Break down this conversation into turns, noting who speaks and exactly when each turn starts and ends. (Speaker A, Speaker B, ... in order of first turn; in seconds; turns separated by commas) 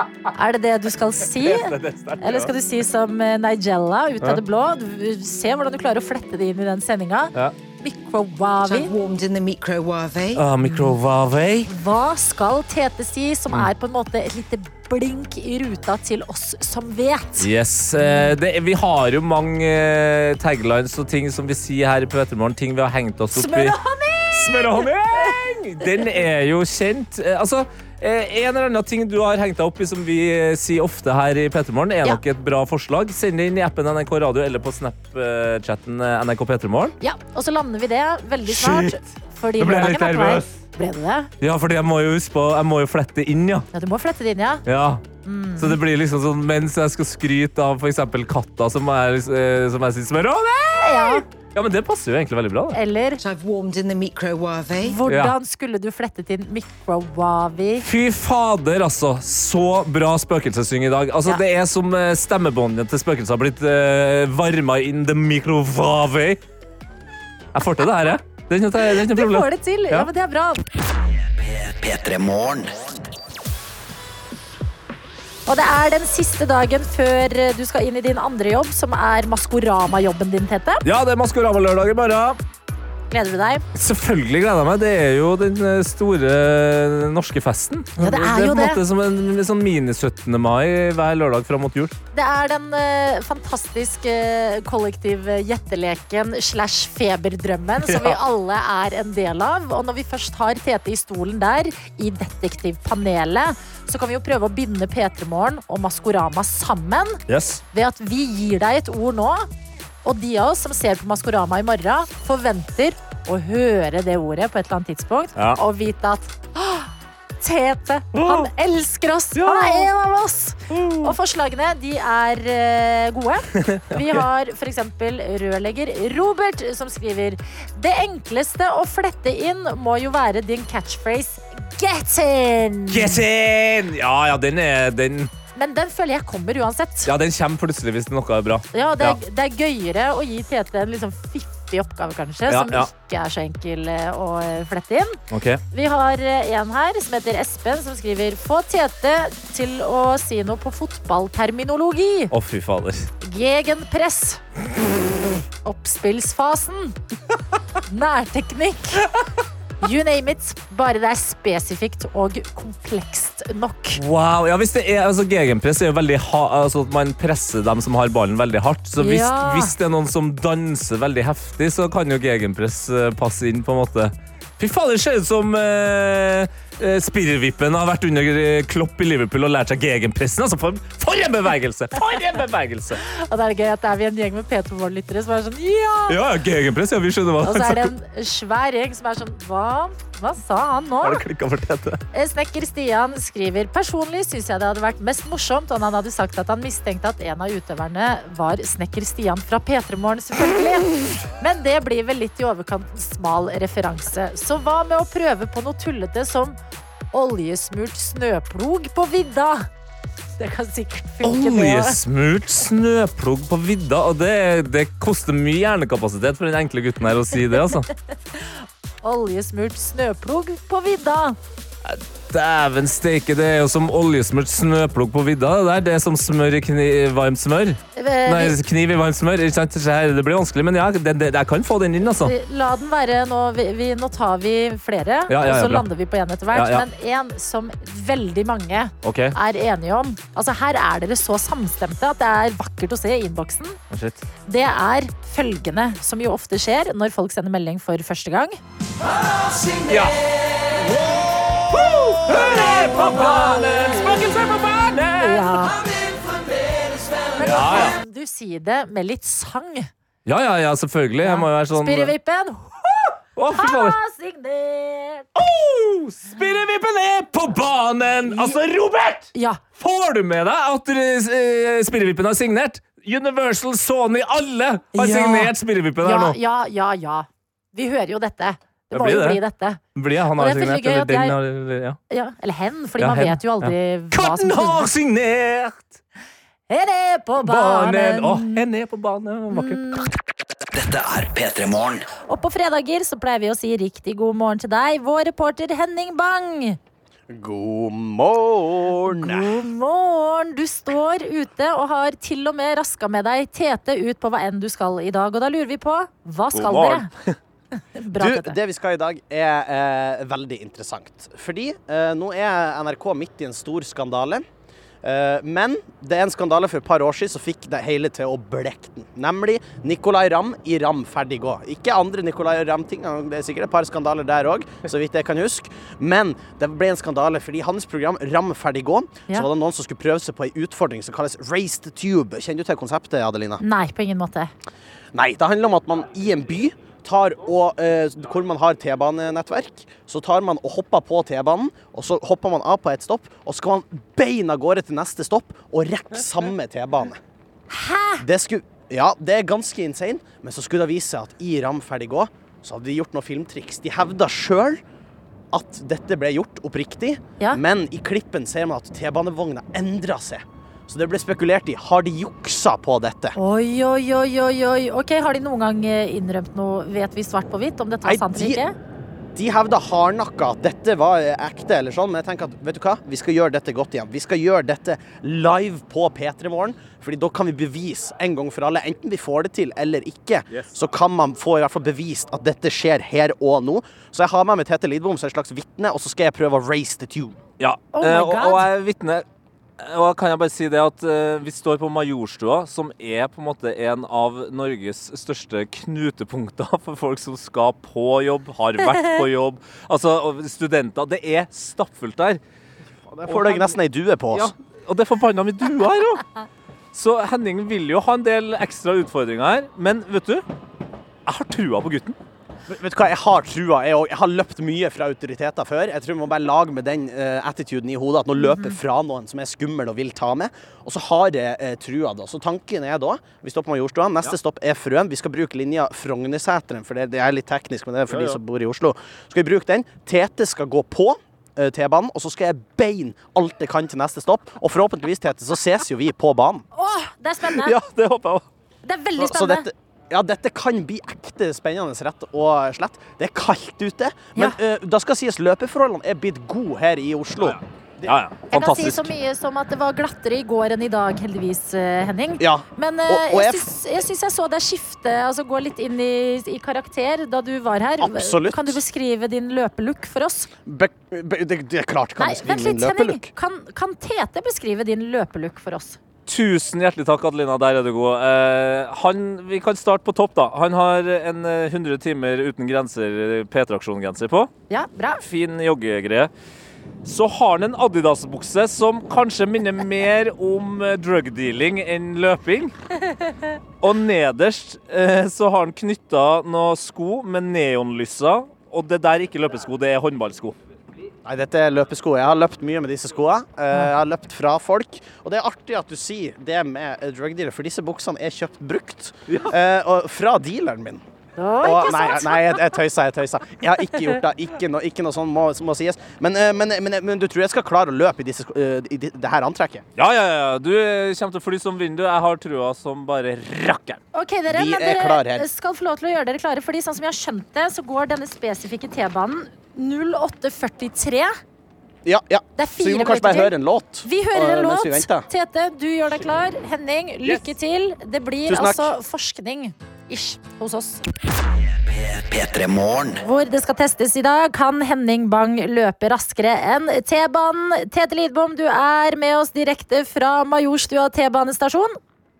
Speaker A: 0.3-8.9, Speaker B: 1.3-2.5, Speaker C: 8.6-10.4, Speaker B: 10.3-11.7, Speaker A: 10.7-10.9, Speaker A: 11.7-18.3, Speaker B: 17.4-23.8, Speaker A: 23.3-24.5, Speaker B: 24.3-36.9, Speaker A: 37.0-41.3, Speaker B: 38.5-39.1, Speaker B: 39.6-40.6, Speaker B: 41.4-43.6, Speaker A: 43.7-44.6, Speaker B: 44.6-45.0, Speaker A: 45.2-45.8, Speaker B: 45.6-52.8, Speaker A: 50.8-51.2, Speaker A: 52.7-53.2, Speaker C: 53.2-55.0, Speaker A: 54.8-57.8, Speaker B: 55.1-55.3, Speaker B: 57.8-66.4, Speaker B: 67.5-70.1, Speaker A: 68.8-70.6, Speaker D: 71.4-72.9, Speaker A: 75.5-80.8, Speaker B: 80.8-82.4, Speaker A: 83.1-83.6, Speaker B: 83.7-91.9, Speaker A: 88.0-88.8, Speaker A: 92.1-107.2, Speaker B: 97.8-98.2, Speaker B: 107.3-107.6, Speaker A: 107.7-109.5, Speaker A: 110.0-116.9, Speaker A: 117.4-133.2, Speaker B: 118.1-118.5, Speaker B: 119.3-119.9, Speaker B: 120.7-121.2, Speaker B: 123.7-124.2, Speaker B: 132.9-135.3, Speaker A: 135.6-137.1, Speaker B: 137.1-139.2, Speaker A: 138.7-145.2, Speaker B: 142.5-142.9, Speaker B: 145.3-145.6, Speaker A: 145.7-152.3, Speaker B: 152.3-153.1, Speaker A: 153.2-154.4, Speaker A: 155.6-156.9, Speaker A: 157.9-159.1, Speaker A: 159.8-164.0, Speaker B: 163.9-183.0, Speaker A: 169.0-169.7, Speaker A: 183.1-186.2, Speaker B: 186.1-187.9, Speaker A: 187.4-191.2, Speaker B: 191.0-192.0, Speaker A: 192.1-206.6, Speaker A: 207.1-209.7, Speaker A: 210.4-212.0, Speaker B: 211.2-217.9, Speaker A: 219.0-221.4, Speaker B: 221.8-232.3, Speaker A: 227.9-228.6, Speaker A: 232.2-243.8, Speaker B: 235.3-235.9, Speaker B: 236.5-236.8, Speaker B: 239.0-239.3, Speaker B: 243.9-244.2, Speaker A: 244.5-248.6, Speaker B: 249.8-250.2, Speaker B: 251.0-255.9, Speaker A: 255.1-255.8, Speaker A: 257.4-259.9, Speaker B: 257.4-258.0, Speaker B: 260.2-262.1, Speaker A: 261.2-265.3, Speaker B: 263.4-264.0, Speaker B: 265.4-276.4, Speaker A: 268.2-268.6, Speaker A: 269.3-269.6, Speaker A: 274.9-279.8, Speaker B: 278.9-279.4, Speaker B: 279.9-282.0, Speaker A: 280.4-281.4, Speaker A: 282.1-284.9, Speaker B: 283.0-285.9, Speaker A: 286.7-288.6, Speaker B: 287.4-290.0, Speaker A: 289.5-290.1, Speaker D: 290.7-292.0, Speaker A: 292.3-296.8, Speaker E: 297.3-299.5, Speaker A: 299.1-307.1, Speaker B: 306.5-307.3, Speaker A: 307.9-308.5, Speaker E: 308.2-314.4, Speaker E: 315.0-333.6, Speaker A: 333.6-334.5, Speaker E: 335.1-347.2, Speaker A: 347.7-348.2, Speaker E: 348.2-354.8, Speaker E: 355.5-363.3, Speaker A: 363.4-368.7, Speaker E: 368.0-368.6, Speaker E: 369.3-387.4, Speaker B: 387.6-389.2, Speaker A: 387.9-388.7, Speaker B: 389.8-402.4, Speaker A: 398.9-399.2, Speaker E: 403.1-404.5, Speaker B: 403.3-403.7, Speaker B: 404.3-406.2, Speaker B: 406.9-410.4, Speaker B: 411.2-412.2, Speaker E: 412.7-436.6, Speaker A: 418.4-418.8, Speaker B: 428.1-428.4, Speaker A: 436.7-437.8, Speaker B: 437.5-438.4, Speaker A: 438.9-439.7, Speaker E: 439.2-448.1, Speaker B: 447.4-449.1, Speaker A: 448.5-460.5, Speaker E: 452.4-453.7, Speaker E: 458.0-458.8, Speaker E: 460.6-463.3, Speaker A: 462.2-466.0, Speaker B: 466.2-474.5, Speaker A: 474.7-475.2, Speaker B: 475.2-476.3, Speaker B: 477.0-482.7, Speaker B: 483.8-490.5, Speaker E: 491.2-501.0, Speaker B: 499.3-499.5, Speaker A: 501.4-502.6, Speaker E: 501.6-509.8, Speaker B: 509.9-514.0, Speaker A: 514.1-521.4, Speaker E: 514.5-515.5, Speaker E: 522.0-525.3, Speaker A: 522.6-523.5, Speaker A: 524.0-531.0, Speaker E: 528.5-528.9, Speaker D: 531.9-533.2, Speaker A: 533.2-541.9